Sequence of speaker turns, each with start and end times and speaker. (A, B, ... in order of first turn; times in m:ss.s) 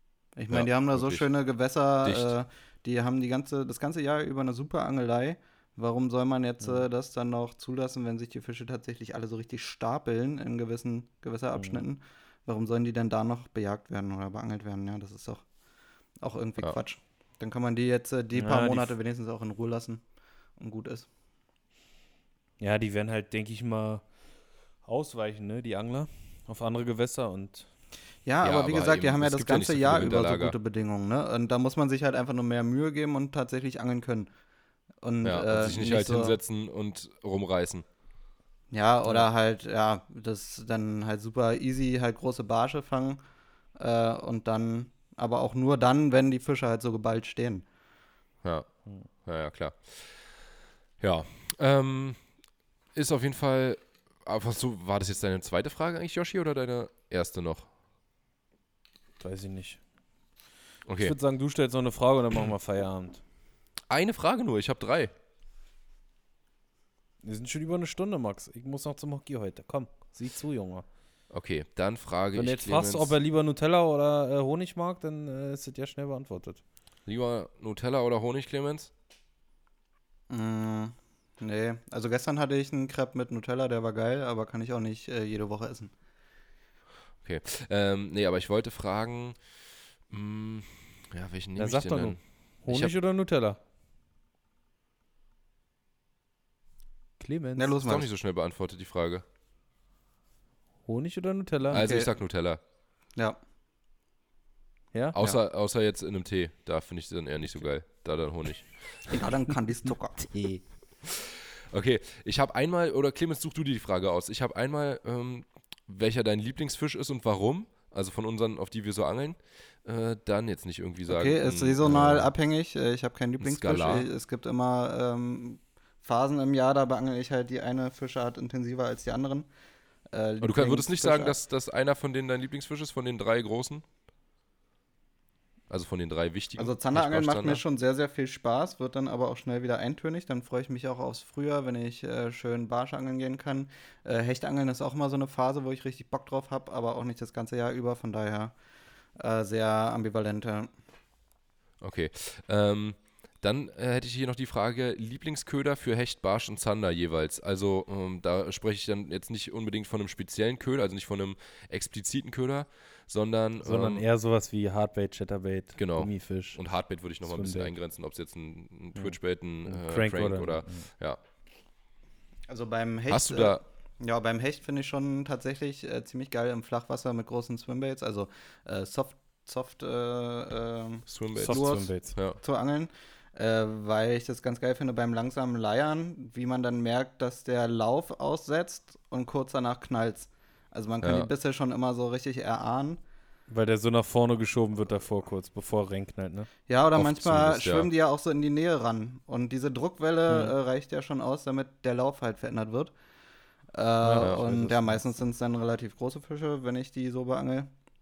0:00.4-0:15.4 A
0:00.5-0:01.3 B
0:02.0-0:02.3 B
0:16.2-0:20.0 A
0:18.3-0:18.9 C
0:20.6-0:21.1 A
0:22.6-0:24.0 C
0:24.8-0:27.7 C
0:28.2-0:34.3 A
0:28.4-0:30.5 B
0:35.0-0:36.4 A
0:35.2-0:37.8 B
0:38.7-0:43.2 A
0:43.8-0:47.6 A
0:48.4-0:50.4 B
0:51.0-0:52.2 B
0:52.9-0:57.7 B
0:59.2-0:59.8 C
1:00.8-1:01.1 B
1:01.0-1:03.2 C
1:03.9-1:05.1 B
1:07.2-1:10.8 C
1:11.3-1:13.1 B
1:12.3-1:16.6 C
1:17.0-1:18.9 B
1:20.3-1:25.9 A
1:27.2-1:29.4 B
1:30.1-1:32.9 B
1:31.6-1:33.6 C
1:37.2-1:37.7 C
1:37.6-1:38.1 A
1:37.8-1:39.2 B
1:40.8-1:41.8 C
1:41.7-1:42.1 A
1:41.7-1:42.6 B
1:45.1-1:49.1 B
1:49.1-1:50.6 A
1:51.0-2:02.3 B
2:01.1-2:09.5 A
2:03.4-2:04.1 B
2:10.1-2:11.4 A
2:10.4-2:13.8 B
2:15.7-2:17.6 B
2:16.6-2:28.6 A
2:29.2-2:30.7 A
2:31.8-2:44.0 B
2:43.6-2:46.6 C
2:45.8-2:51.2 B
2:47.2-2:47.7 C
2:48.9-2:50.9 C
2:52.5-3:13.0 A
2:53.1-2:53.6 B
3:01.1-3:02.4 B
3:01.4-3:02.1 C
3:11.0-3:11.3 B
3:13.5-3:16.5 C
3:16.7-3:22.9 A
3:16.9-3:17.9 B
3:23.7-3:27.7 A
3:24.0-3:25.0 C